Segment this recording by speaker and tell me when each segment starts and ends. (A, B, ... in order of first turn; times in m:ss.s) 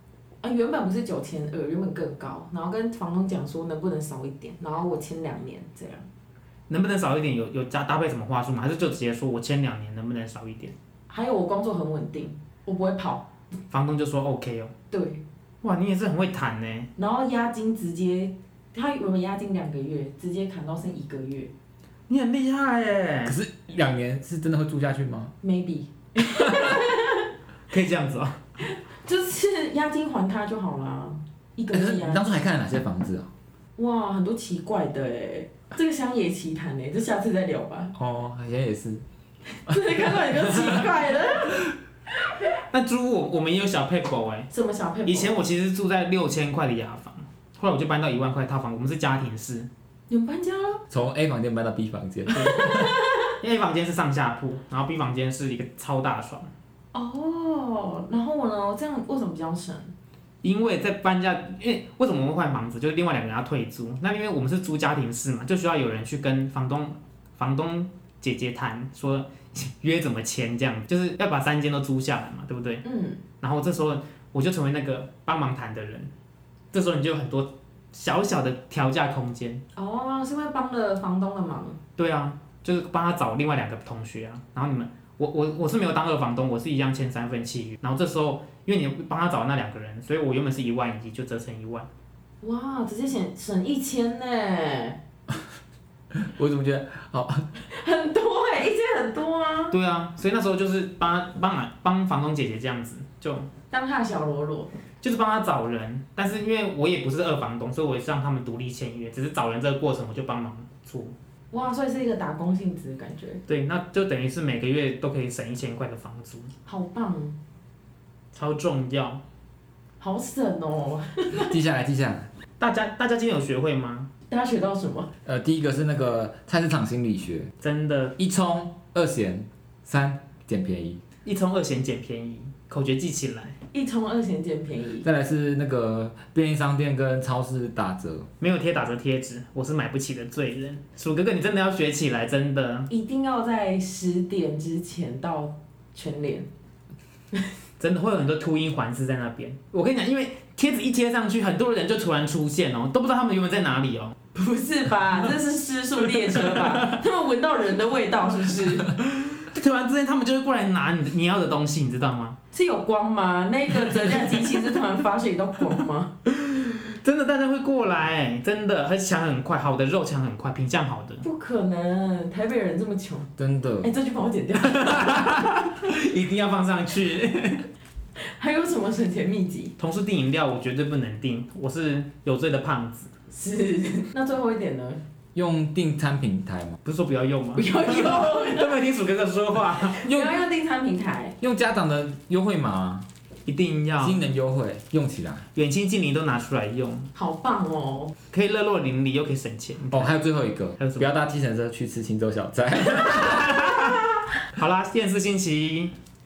0:00.4-0:06.0 A
0:06.7-0:10.7 B
0:11.1-0:13.3 A
0:13.7-0:14.7 B
0:14.9-0:15.2 A
0:15.6-0:16.9 B
0:17.0-0:21.5 A
0:22.1-0:23.4 B
0:23.2-0:25.3 C
0:25.4-0:27.3 A
0:27.7-0:28.4 B
0:28.6-0:32.3 A
0:31.7-0:33.3 C
0:33.8-0:37.9 A
0:37.9-0:39.0 C
0:39.5-0:41.7 A
0:39.7-0:40.0 C
0:42.7-0:44.5 B
0:44.5-0:45.4 A
0:45.1-0:49.7 B
0:50.1-0:50.8 A
0:50.9-0:52.9 C
0:52.3-0:53.3 A
0:53.4-0:56.5 B
0:56.9-0:59.9 A
1:00.4-1:12.8 B
1:12.8-1:13.2 A
1:13.4-1:16.1 B
1:16.7-1:19.6 B
1:19.8-1:21.8 A
1:22.0-1:31.9 B
1:32.4-1:35.0 A
1:36.1-1:37.5 C
1:37.6-1:39.8 A
1:39.7-1:43.5 B
1:43.7-1:44.7 A
1:45.0-1:51.1 B
1:51.5-1:53.4 A
1:53.5-1:56.5 B
1:56.6-1:57.4 A
1:58.3-1:59.2 B
2:00.0-2:01.5 A
2:01.3-2:02.3 C
2:02.6-2:04.1 B
2:04.3-2:05.1 A
2:05.2-2:07.5 C
2:07.6-2:08.2 B
2:08.2-2:11.0 C
2:11.2-2:13.6 B
2:13.7-2:15.0 A
2:15.0-2:18.3 C
2:18.4-2:22.9 B
2:22.9-2:26.5 A
2:27.8-2:34.1 B
2:34.3-2:38.9 A
2:36.4-2:37.0 B
2:39.1-2:42.4 B
2:42.5-2:46.1 A
2:44.0-2:44.5 B
2:46.3-2:51.2 B
2:51.2-2:55.1 A
2:53.4-2:53.9 C
2:54.6-2:57.7 B
2:58.2-2:59.7 A
2:59.8-3:03.1 B
3:03.3-3:05.0 A
3:05.3-3:06.8 C
3:06.8-3:10.0 B
3:07.6-3:08.8 A
3:09.8-3:11.4 A
3:10.1-3:10.4 C
3:11.4-3:13.1 C
3:13.5-3:14.2 B
3:14.0-3:15.4 C
3:15.5-3:17.1 B
3:17.1-3:18.1 A
3:18.3-3:20.1 B
3:19.9-3:23.7 C
3:20.8-3:21.1 B
3:23.0-3:25.9 B